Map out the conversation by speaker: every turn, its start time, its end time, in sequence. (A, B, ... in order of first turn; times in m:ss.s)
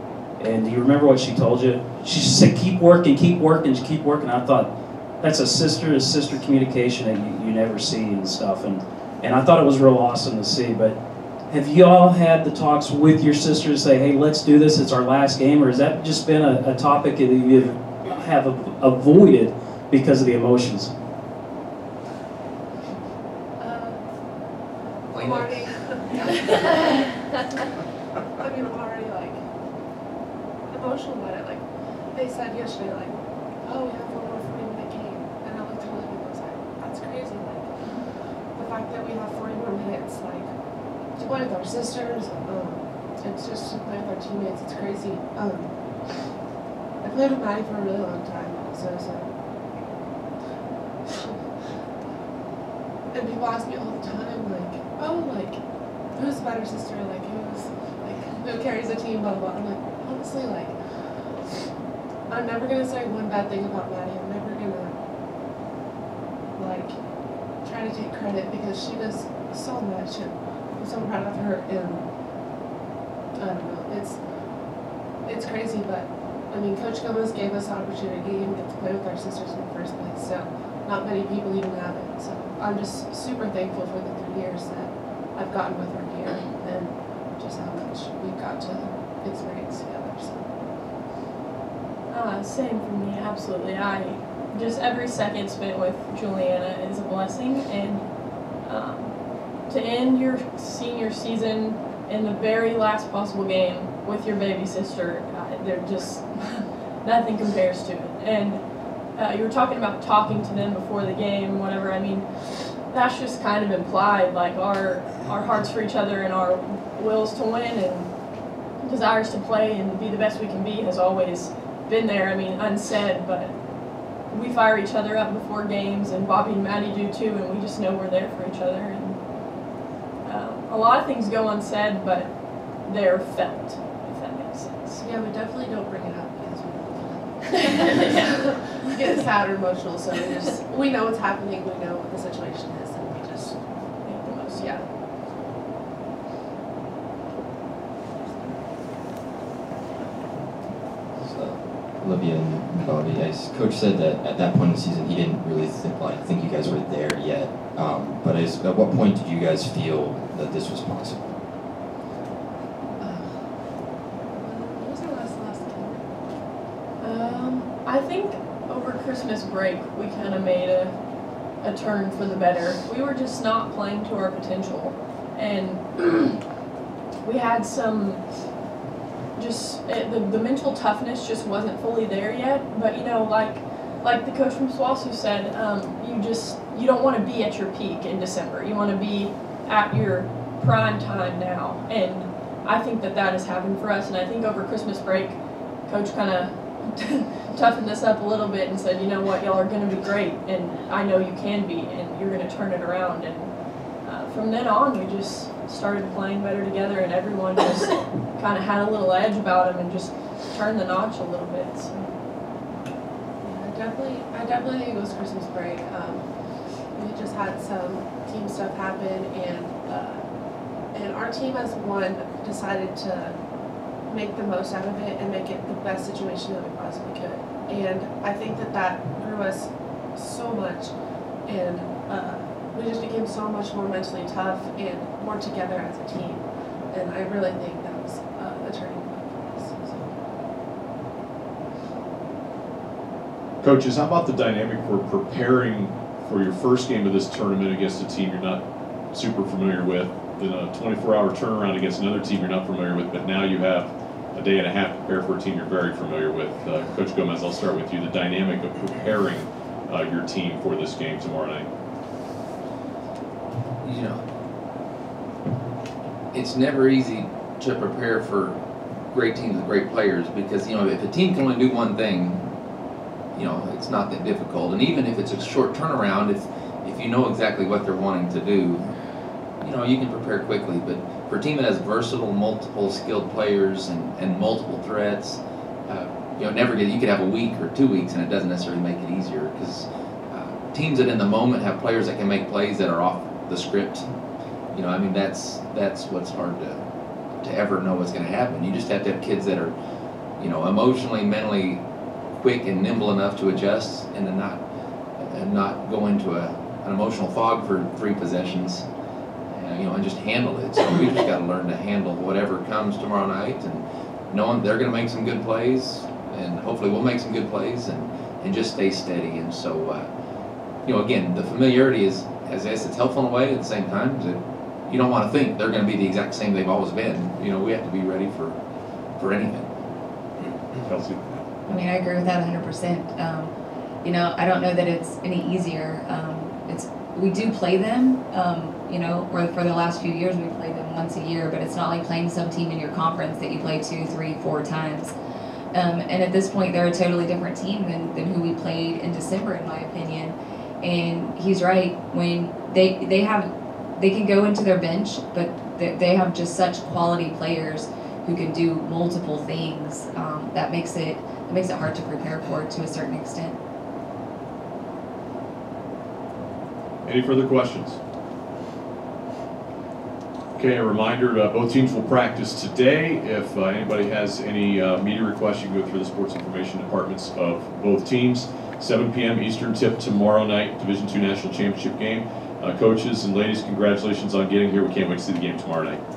0:00.4-0:11.0 A
0:11.5-0:20.9 A
0:23.6-0:24.0 B
0:25.1-0:27.0 B
0:25.1-0:25.7 C
0:28.4-0:29.4 B
0:30.7-0:37.7 B
0:38.5-0:40.5 B
0:41.2-0:46.2 B
0:47.0-0:49.3 B
0:51.1-0:51.4 B
0:53.1-0:55.6 B
0:56.1-1:00.8 B
1:02.3-1:05.0 B
1:06.6-1:07.0 B
1:07.6-1:12.1 B
1:13.4-1:14.2 B
1:15.2-1:30.5 B
1:32.1-1:48.6 D
1:49.2-1:52.3 D
1:52.9-1:58.1 D
1:58.8-2:03.5 D
2:04.1-2:09.2 D
2:10.2-2:15.0 D
2:15.0-2:23.6 B
2:24.0-2:24.9 D
2:24.5-2:24.8 B
2:31.2-2:41.5 E
2:43.0-2:43.6 B
2:44.3-2:46.1 B
2:47.0-2:50.9 D
2:51.6-2:56.4 D
2:57.2-2:58.2 D
2:59.4-3:32.1 D
3:33.4-3:36.3 B
3:37.0-3:40.2 B
3:40.9-3:43.4 B
3:44.1-3:50.9 B
3:51.5-4:00.2 B
4:03.6-4:21.7 F
4:23.8-4:24.2 C
4:26.3-4:28.6 C
4:29.1-4:32.4 C
4:33.4-4:38.8 C
4:39.6-4:54.1 C
4:54.7-4:56.8 C
4:57.4-4:59.7 C
5:00.4-5:01.8 C
5:02.4-5:04.6 C
5:05.2-5:08.9 C
5:09.5-5:20.1 C
5:20.9-5:28.6 C
5:29.2-5:29.7 C
5:30.8-5:31.4 F
5:31.7-5:33.5 G
5:34.0-5:45.1 G
5:45.7-6:03.6 G
6:07.0-6:08.0 F
6:10.6-6:26.0 F